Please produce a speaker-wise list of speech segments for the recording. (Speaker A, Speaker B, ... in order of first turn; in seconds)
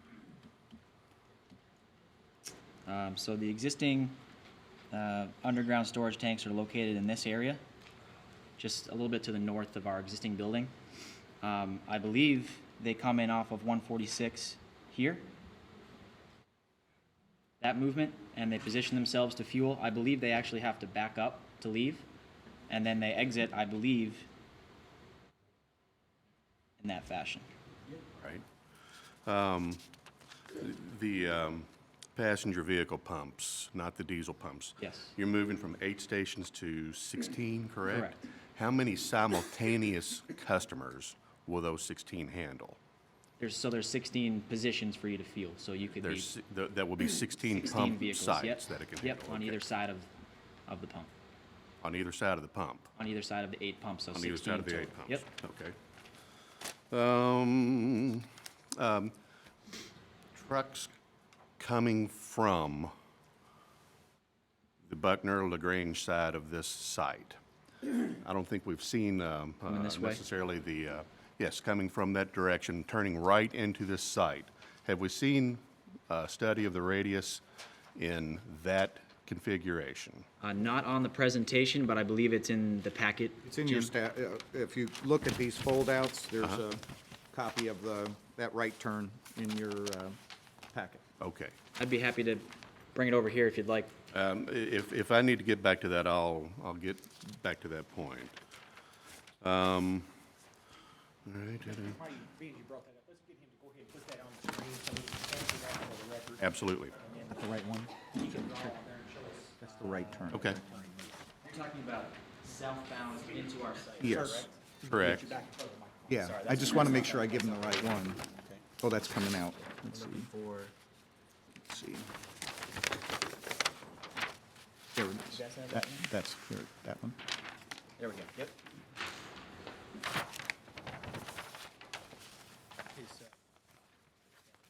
Speaker A: 2.9-4.2, 4.9-7.6, 8.6-10.7, 11.4-15.3, 17.6-22.1, 22.7-24.3, 26.8-27.5, 34.8-35.1, 37.9-38.2, 43.4-46.3, 47.4-50.1, 50.7-51.1, 53.0-55.3, 69.7-70.2, 80.4-83.9, 91.8-93.9, 111.4-114.5, 116.2-118.6, 119.9-120.7, 125.3-126.1, 128.0-128.5
Speaker B: 28.2-28.4, 29.2-29.8, 30.5-42.8, 46.0-49.6, 51.8-52.9, 54.1-55.8, 56.9-59.1, 60.3-60.9, 61.6-62.9, 64.8-67.4, 68.0-77.4, 78.0-80.3, 91.2-91.5, 94.1-98.3, 99.4-100.1, 101.2-102.0, 106.4-107.0, 110.3-110.6, 114.8-115.3
Speaker C: 83.4-90.2, 90.7-91.0, 109.6-110.6, 114.0-114.4, 116.1-118.2, 118.8-120.3, 121.6-122.1, 124.9-127.2
Speaker D: 101.7-111.1, 114.0-116.9